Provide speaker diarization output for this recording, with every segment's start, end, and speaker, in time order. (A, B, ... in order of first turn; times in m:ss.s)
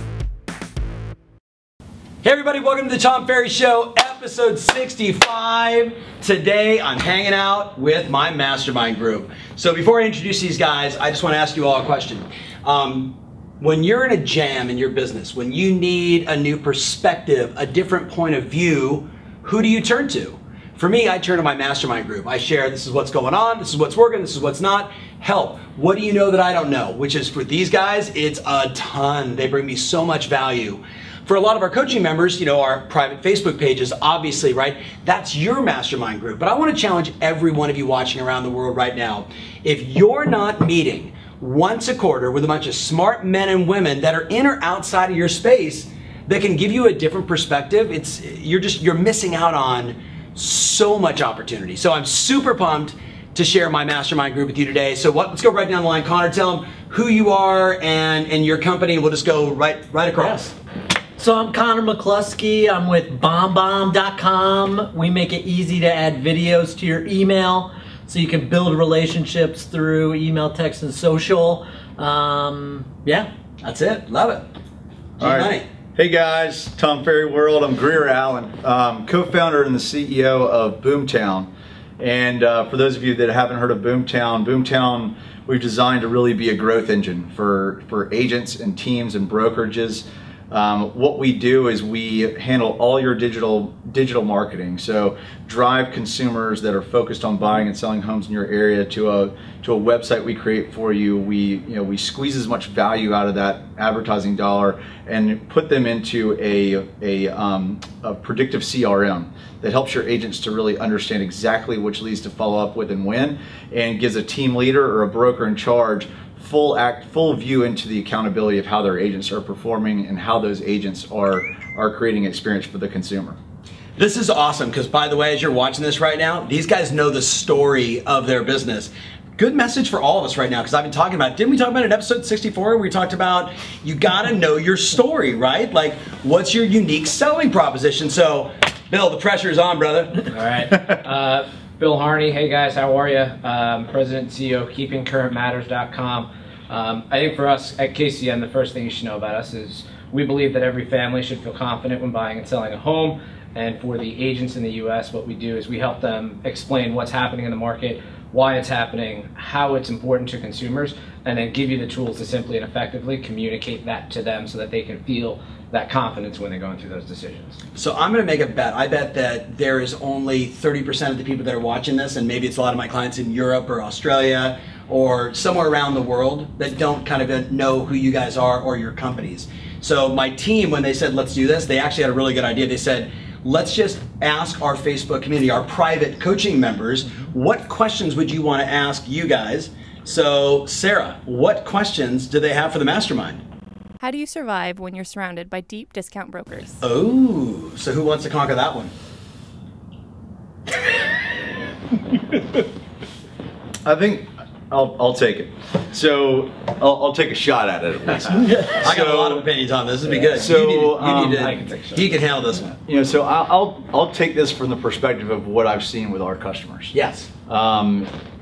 0:02.2-1:00.6 A
1:01.2-1:13.3 B
1:13.6-1:14.5 A
1:15.2-1:15.7 A
1:15.2-2:03.4 C
2:04.0-2:20.3 A
2:20.3-2:47.6 D
2:47.8-3:13.4 A
3:14.0-3:16.8 E
3:16.8-3:18.9 A
3:23.8-3:29.5 C
3:28.4-3:28.8 B
3:28.8-3:32.7 A
3:30.1-3:32.2 D
3:30.3-3:31.6 C
3:32.7-3:36.9 C
3:36.9-3:37.3 A
3:37.5-3:38.1 C